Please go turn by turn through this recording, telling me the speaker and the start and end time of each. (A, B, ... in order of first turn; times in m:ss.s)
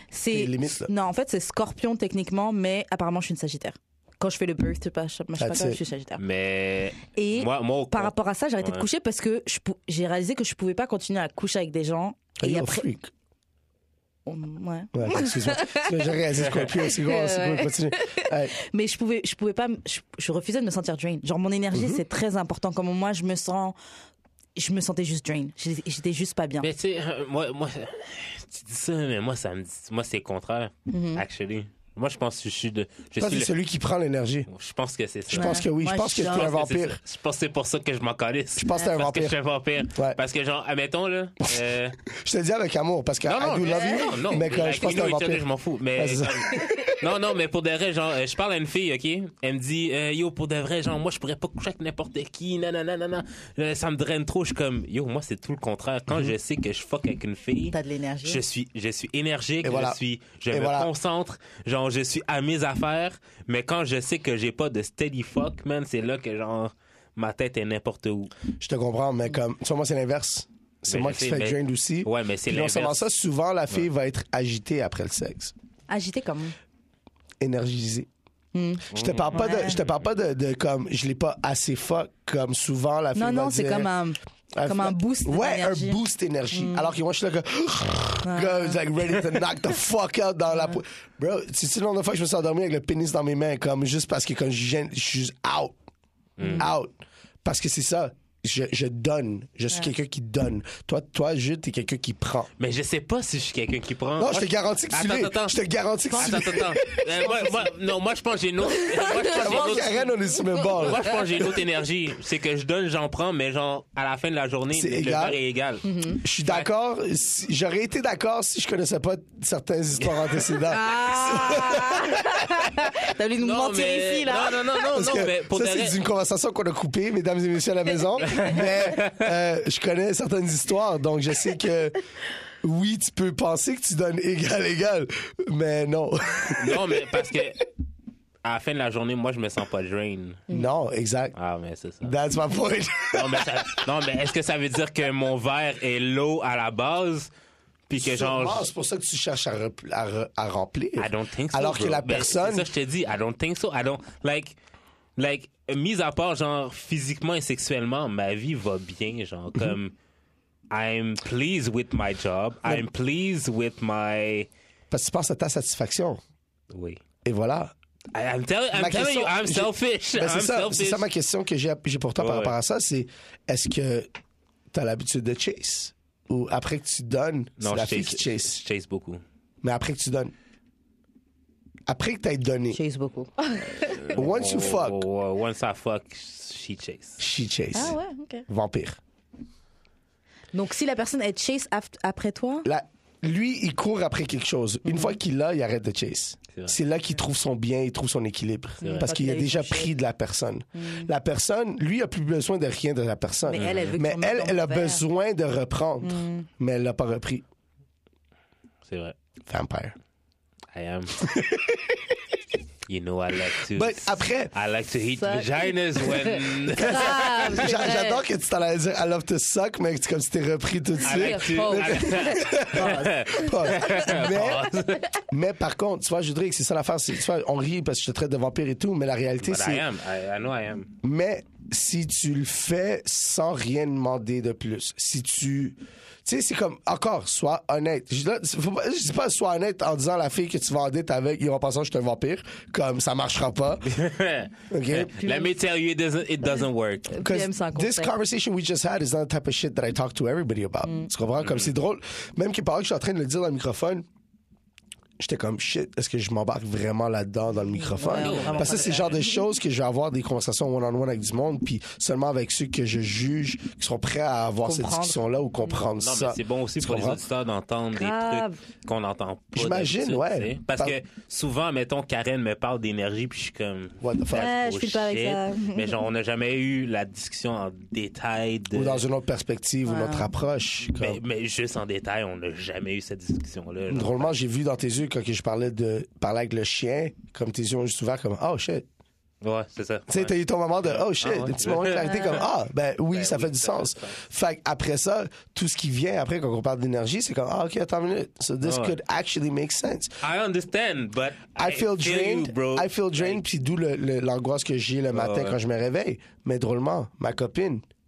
0:00.1-0:06.2 A
0:00.3-0:00.9 B
0:05.4-0:05.8 B
0:06.2-0:08.8 C
0:07.1-0:12.8 A
0:12.4-0:13.1 B
0:14.2-0:23.8 A
0:14.9-0:18.5 B
0:16.4-0:16.7 C
0:21.7-0:22.0 B
0:24.6-0:26.7 A
0:26.6-0:33.5 C
0:30.9-0:31.2 A
0:33.2-0:34.5 B
0:34.5-0:35.6 C
0:35.3-0:37.0 B
0:35.3-0:36.5 A
0:36.2-0:42.0 C
0:38.6-0:39.3 B
0:39.9-0:40.2 B
0:42.0-0:46.7 B
0:43.2-1:08.3 C
0:43.6-0:44.2 A
0:57.7-0:58.4 A
0:59.6-1:00.0 B
1:00.5-1:00.9 B
1:08.6-1:15.5 B
1:10.9-1:13.0 C
1:15.9-1:16.5 A
1:17.4-1:18.1 B
1:18.5-1:19.8 A
1:18.9-1:23.9 B
1:18.9-1:19.9 C
1:23.1-1:26.0 A
1:24.5-1:35.8 B
1:26.5-1:26.9 A
1:28.2-1:28.8 A
1:36.4-1:36.7 C
1:36.4-1:36.7 A
1:36.6-1:36.9 B
1:37.4-1:42.5 B
1:42.6-1:45.6 C
1:44.2-1:47.5 B
1:46.1-1:50.1 C
1:46.2-1:46.6 A
1:47.2-1:47.5 A
1:48.7-1:51.1 A
1:49.2-1:51.6 B
1:50.7-1:55.9 C
1:54.7-1:55.4 B
1:55.8-1:56.2 A
1:56.2-2:03.0 B
2:00.0-2:00.4 C
2:00.7-2:04.7 A
2:03.4-2:06.0 C
2:04.8-2:12.0 B
2:08.2-2:09.3 C
2:12.6-2:17.3 B
2:16.5-2:17.6 C
2:18.4-2:20.5 C
2:20.5-2:21.3 B
2:21.3-2:22.2 C
2:22.0-2:23.8 B
2:23.1-2:27.3 C
2:27.9-2:28.7 C
2:27.9-2:32.7 B
2:31.0-2:34.6 C
2:35.2-2:39.9 C
2:40.7-2:44.5 C
2:44.9-2:46.2 B
2:46.7-2:47.0 C
2:47.2-2:47.7 B
2:48.1-2:51.0 C
2:48.7-2:54.1 B
2:52.2-2:52.6 C
2:54.7-2:58.6 B
2:57.6-2:59.2 C
2:59.6-3:00.3 B
3:01.9-3:02.8 B
3:02.7-3:04.1 A
3:04.0-3:07.2 C
3:04.1-3:05.0 B
3:07.2-3:08.0 B
3:07.7-3:08.4 A
3:08.5-3:09.0 B
3:10.5-3:12.7 A
3:12.6-3:27.4 B
3:14.8-3:15.2 A
3:18.8-3:19.1 C
3:18.8-3:19.9 A
3:20.7-3:21.1 A
3:23.4-3:25.0 A
3:23.5-3:24.0 C
3:26.0-3:26.5 A
3:28.8-3:29.1 C
3:29.5-3:29.9 B
3:30.7-3:31.2 C
3:31.2-3:32.1 B
3:32.9-3:37.7 C
3:33.6-3:34.5 B
3:35.2-3:38.2 A
3:36.8-3:44.7 B
3:41.0-3:42.5 A
3:41.0-3:45.1 C
3:43.8-3:44.1 A
3:45.3-3:49.8 B
3:49.4-3:50.9 C
3:51.0-4:03.8 B
4:03.8-4:07.2 C
4:04.7-4:05.2 B
4:05.2-4:05.5 A
4:07.1-4:08.1 A
4:07.2-4:14.0 B
4:10.8-4:11.1 A
4:11.4-4:11.7 C
4:15.2-4:27.2 B
4:17.7-4:19.4 A
4:18.2-4:19.2 C
4:24.6-4:25.8 A
4:26.0-4:39.0 C
4:27.9-4:28.6 A
4:29.5-4:31.0 B
4:34.0-4:34.5 B
4:34.3-4:35.9 A
4:38.7-4:41.2 B
4:39.8-4:40.3 A
4:40.9-4:44.4 C
4:43.9-4:48.8 B
4:49.4-4:50.3 C
4:50.1-5:00.2 B
4:50.8-4:52.4 C
4:52.0-4:52.4 A
4:53.1-4:54.2 C
4:58.6-4:59.0 C
5:00.2-5:03.4 C
5:01.6-5:07.8 B
5:05.1-5:05.6 C